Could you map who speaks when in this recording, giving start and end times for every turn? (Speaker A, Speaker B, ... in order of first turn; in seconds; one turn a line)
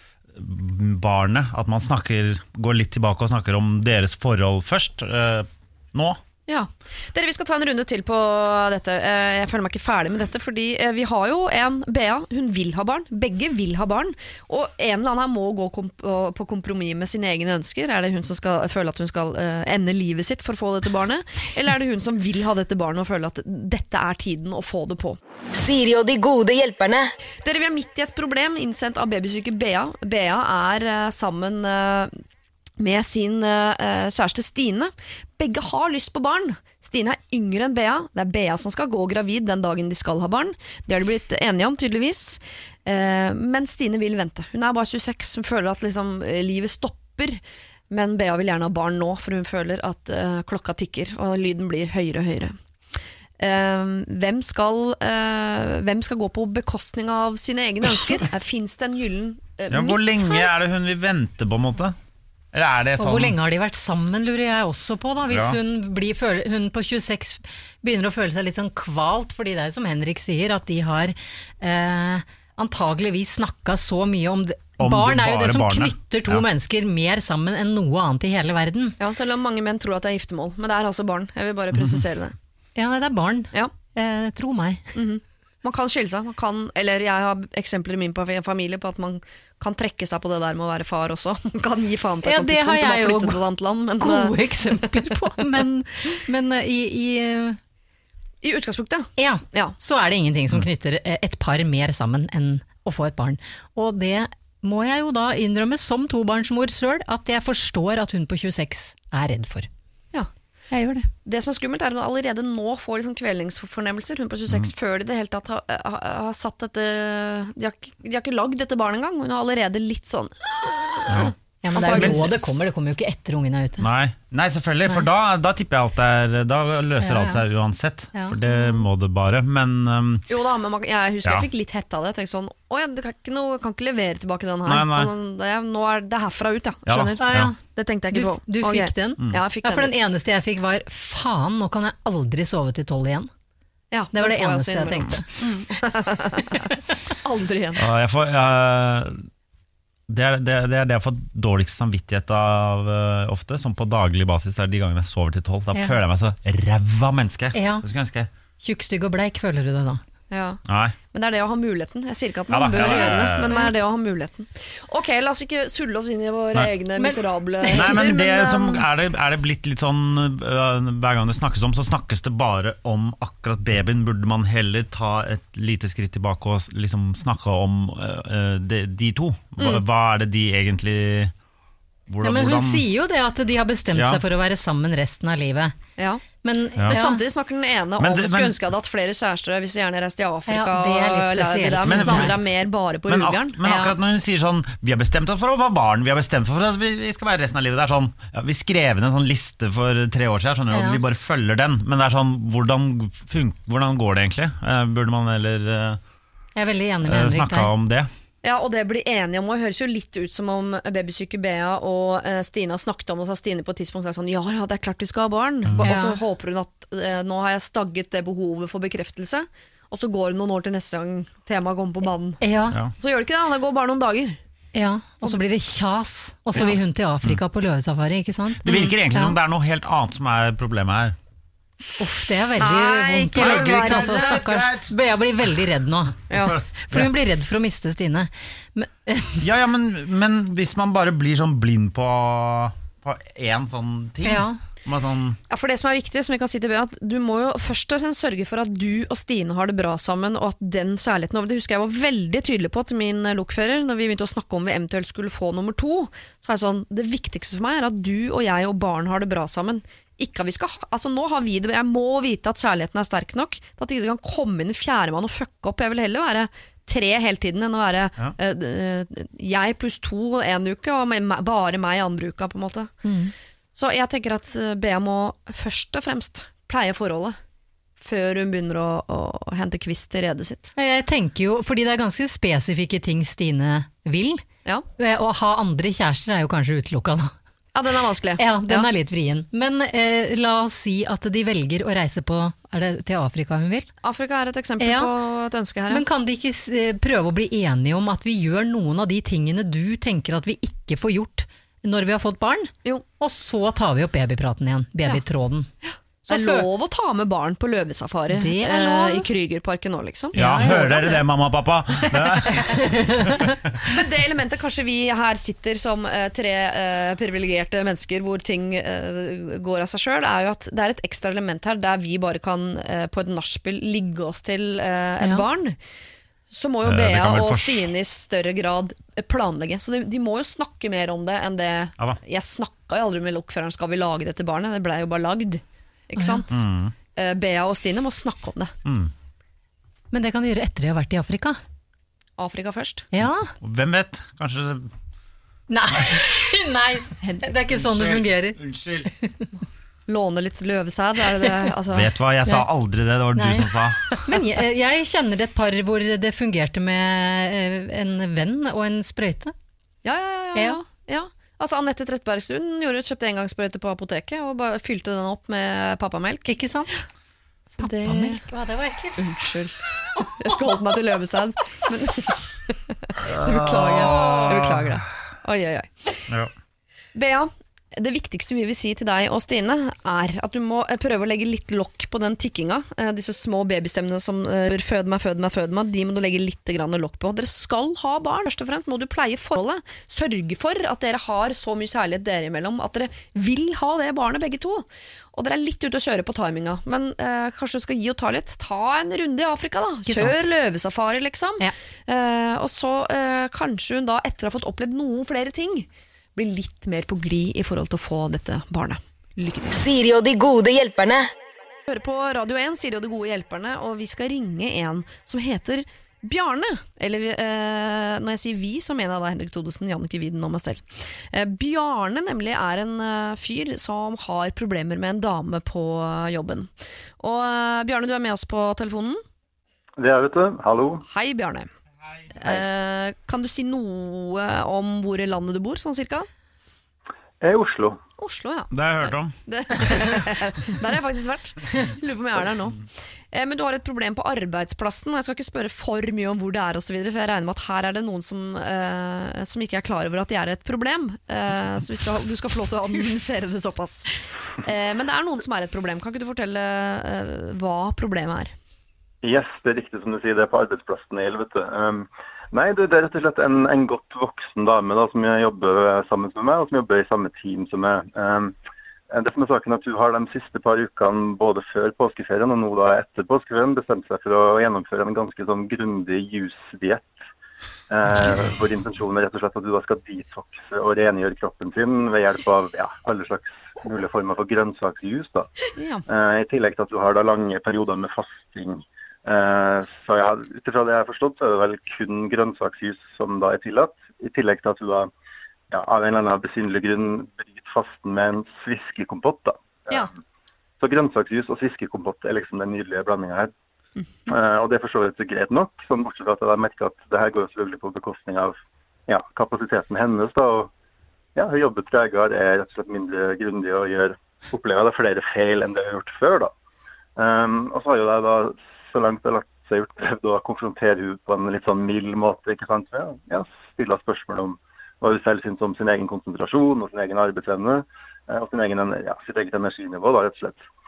Speaker A: 0.3-6.2
Speaker B: 6.5-25.2
Speaker C: 25.5-27.1
Speaker B: 27.4-32.1
Speaker B: 32.8-52.5
Speaker B: 53.4-60.5
Speaker A: 59.7-62.0
Speaker A: 62.5-63.4
Speaker D: 63.0-79.0
Speaker A: 65.3-65.6
Speaker A: 74.8-76.5
Speaker B: 79.0-82.3
Speaker A: 81.7-82.0
Speaker D: 82.8-84.9
Speaker B: 85.0-95.1
Speaker D: 92.2-93.4
Speaker D: 94.0-97.6
Speaker B: 98.4-99.8
Speaker D: 99.2-109.7
Speaker D: 110.7-111.1
Speaker B: 111.2-122.6
Speaker D: 121.6-123.9
Speaker A: 123.8-130.3
Speaker D: 127.0-127.4
Speaker B: 130.3-140.0
Speaker A: 134.7-135.1
Speaker A: 136.9-137.5
Speaker D: 137.2-137.6
Speaker D: 138.1-143.3
Speaker B: 143.9-147.8
Speaker D: 144.1-145.3
Speaker A: 147.8-149.3
Speaker A: 150.1-158.3
Speaker D: 157.5-157.8
Speaker D: 158.6-160.0
Speaker B: 160.3-160.6
Speaker A: 160.7-161.0
Speaker B: 161.1-168.8
Speaker A: 162.5-163.7
Speaker D: 162.8-163.8
Speaker D: 167.0-168.0
Speaker A: 167.7-181.3
Speaker B: 179.6-179.8
Speaker A: 182.1-182.8
Speaker D: 182.2-185.8
Speaker A: 183.9-184.2
Speaker B: 186.0-186.2
Speaker D: 186.4-187.2
Speaker A: 186.8-187.0
Speaker B: 186.9-193.9
Speaker A: 188.0-188.6
Speaker D: 190.5-192.4
Speaker A: 191.9-192.4
Speaker A: 193.1-206.0
Speaker D: 200.7-201.0
Speaker D: 206.6-207.7
Speaker A: 207.1-208.1
Speaker B: 208.4-222.4
Speaker D: 215.8-216.2
Speaker D: 222.4-222.8
Speaker B: 223.0-224.4
Speaker D: 224.8-229.3
Speaker A: 228.6-231.2
Speaker D: 232.0-239.4
Speaker B: 232.6-234.4
Speaker A: 233.3-234.9
Speaker B: 236.3-236.6
Speaker A: 236.4-237.1
Speaker A: 239.4-245.4
Speaker D: 244.2-244.6
Speaker B: 245.5-272.9
Speaker D: 273.1-273.3
Speaker B: 273.8-277.4
Speaker B: 278.0-280.7
Speaker D: 280.8-284.4
Speaker D: 285.0-287.3
Speaker B: 287.8-288.9
Speaker D: 288.4-293.9
Speaker B: 294.0-296.0
Speaker D: 294.8-295.1
Speaker D: 295.9-305.7
Speaker B: 305.9-311.2
Speaker D: 306.3-306.7
Speaker D: 308.3-309.2
Speaker D: 310.4-310.9
Speaker A: 310.4-313.5
Speaker B: 312.0-312.8
Speaker D: 312.7-313.6
Speaker B: 313.8-325.8
Speaker B: 326.5-336.6
Speaker A: 326.9-327.8
Speaker D: 336.2-336.4
Speaker A: 336.5-336.9
Speaker B: 337.1-338.7
Speaker A: 338.9-339.1
Speaker D: 340.1-341.6
Speaker B: 342.4-343.1
Speaker D: 343.1-343.5
Speaker A: 343.6-344.9
Speaker D: 345.7-349.4
Speaker A: 347.7-349.1
Speaker B: 350.1-352.1
Speaker A: 351.9-354.0
Speaker D: 353.4-359.5
Speaker B: 360.0-367.0
Speaker D: 366.5-366.9
Speaker B: 367.7-368.4
Speaker D: 367.8-369.3
Speaker B: 369.2-376.3
Speaker A: 373.2-375.0
Speaker B: 377.1-409.7
Speaker D: 400.1-400.4
Speaker C: 409.7-411.3
Speaker B: 411.9-429.2
Speaker E: 430.0-431.1
Speaker B: 431.1-431.7
Speaker B: 432.3-436.3
Speaker E: 437.4-438.0
Speaker B: 438.2-458.5
Speaker A: 438.7-439.4
Speaker E: 459.2-468.5
Speaker E: 469.1-477.1
Speaker E: 477.9-485.5
Speaker B: 485.8-486.0
Speaker E: 486.1-495.1
Speaker E: 495.7-500.1
Speaker E: 500.8-503.5
Speaker B: 504.0-504.3
Speaker E: 504.3-508.6
Speaker E: 509.1-510.7
Speaker E: 511.4-516.5
Speaker E: 517.2-530.6